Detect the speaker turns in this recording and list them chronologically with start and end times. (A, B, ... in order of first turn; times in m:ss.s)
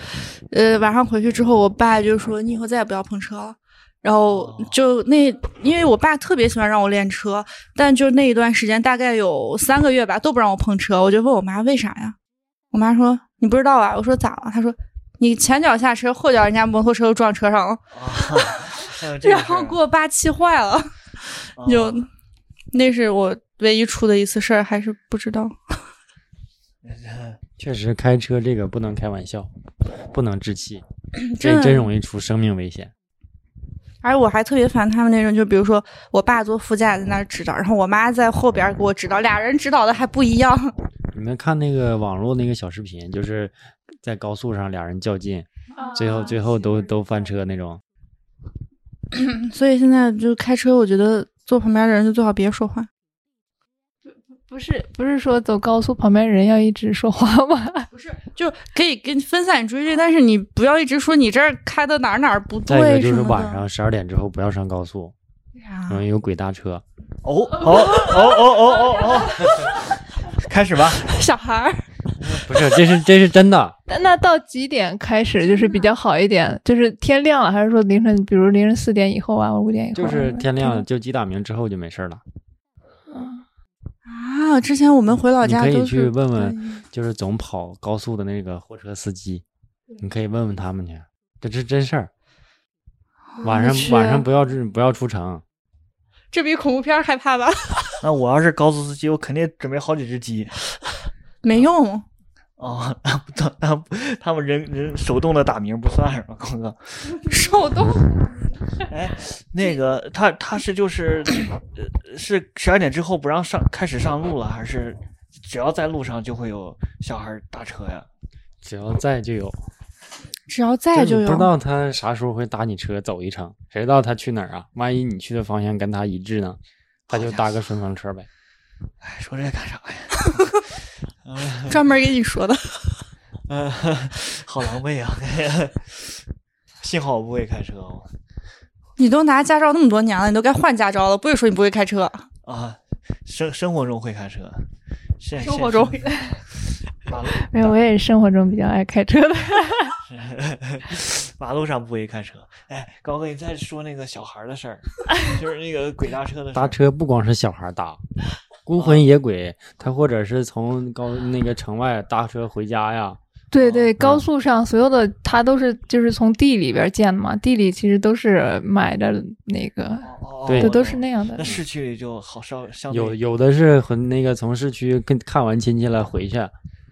0:00.5-0:12.2 A
0:04.2-0:04.8 B
0:12.7-0:20.9 A
0:17.9-0:19.8 B
0:21.6-0:22.0 B
0:21.6-0:22.1 A
0:22.7-0:25.8 A
0:26.8-0:27.4 B
0:27.6-0:29.5 C
0:30.1-0:30.8 C
0:31.2-0:31.9 A
0:31.4-0:32.9 C
0:34.0-0:40.7 A
0:41.1-0:47.8 C
0:45.8-0:46.3 D
0:49.1-0:52.9 A
0:54.5-0:57.9 D
0:57.9-1:03.6 A
1:02.7-1:05.1 C
1:05.6-1:06.0 A
1:05.9-1:06.8 C
1:07.2-1:11.2 B
1:11.0-1:11.8 A
1:12.3-1:13.8 C
1:13.9-1:20.8 D
1:15.4-1:15.9 A
1:20.0-1:22.2 C
1:23.1-1:23.4 D
1:24.1-1:26.8 A
1:25.4-1:29.4 C
1:30.0-1:32.1 C
1:33.4-1:34.2 A
1:33.4-1:35.4 C
1:36.3-1:38.0 A
1:38.0-1:40.6 B
1:41.4-1:42.0 A
1:42.6-1:47.2 B
1:47.2-1:48.4 A
1:48.8-1:58.1 B
1:58.6-1:59.6 C
2:00.5-2:01.5 A
2:00.9-2:06.6 C
2:07.1-2:07.6 B
2:07.1-2:08.3 C
2:09.0-2:10.6 B
2:11.2-2:11.9 B
2:11.7-2:13.0 A
2:13.5-2:16.1 B
2:16.8-2:18.1 B
2:19.0-2:22.2 A
2:22.4-2:24.6 B
2:25.2-2:26.4 B
2:25.4-2:26.3 A
2:27.0-2:27.8 B
2:27.5-2:30.0 D
2:30.1-2:36.8 B
2:36.5-2:38.0 C
2:38.7-2:43.2 C
2:38.8-2:39.1 B
2:43.5-2:51.5 D
2:43.6-2:43.9 B
2:50.0-2:53.2 B
2:50.5-2:50.8 C
2:52.9-2:56.5 C